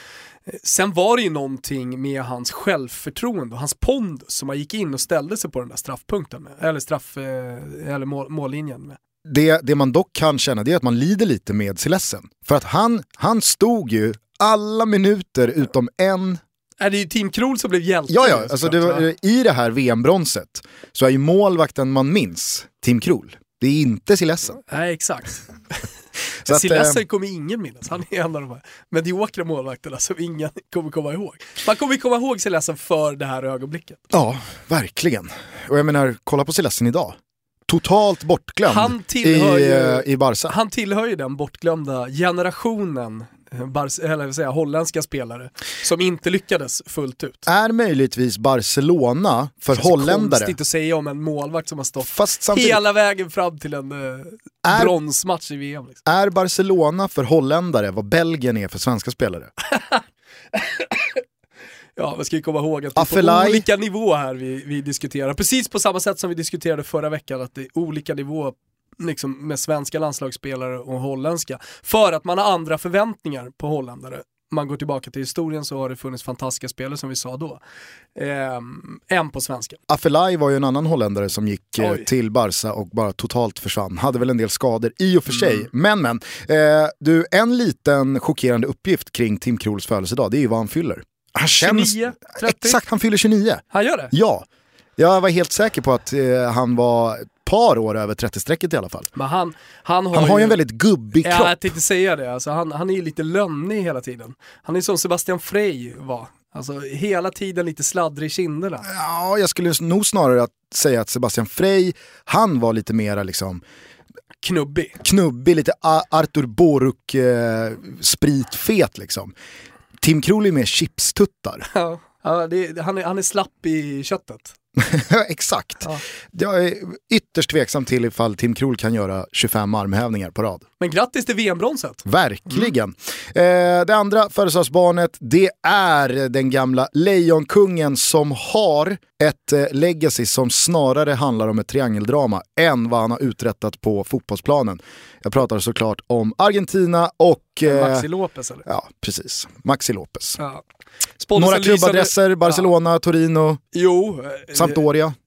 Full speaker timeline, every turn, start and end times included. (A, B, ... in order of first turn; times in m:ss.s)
0:00.5-0:09.0 A
0:09.2-0:16.4 B
0:16.8-0:19.1 A
0:18.1-0:24.6 B
0:24.7-0:25.8 A
0:26.4-0:27.0 B
0:26.5-0:34.0 A
0:34.1-0:37.2 B
0:37.7-0:40.5 B
0:38.7-0:47.4 A
0:47.4-0:50.5 B
0:49.7-0:56.0 A
0:52.0-0:52.8 B
0:54.6-0:54.9 B
0:56.0-0:59.5 B
0:59.7-1:00.0 A
1:00.5-1:01.2 A
1:02.0-1:17.6 A
1:02.9-1:03.6 B
1:18.1-1:19.8 A
1:19.9-1:34.4 B
1:21.8-1:22.0 A
1:25.4-1:25.6 A
1:31.6-1:32.8 A
1:33.7-1:34.1 A
1:35.0-1:39.1 B
1:39.1-1:40.6 A
1:40.1-1:41.7 B
1:41.2-1:48.8 A
1:48.8-1:53.6 B
1:54.4-1:55.0 A
1:55.0-1:59.3 B
2:00.0-2:01.6 B
2:01.7-2:04.6 A
2:04.8-2:10.6 B
2:10.8-2:12.7 A
2:12.0-2:28.0 B
2:27.6-2:28.6 A
2:28.6-2:30.4 B
2:31.2-2:32.7 A
2:31.3-2:33.6 B
2:33.7-2:34.8 A
2:34.5-2:35.1 B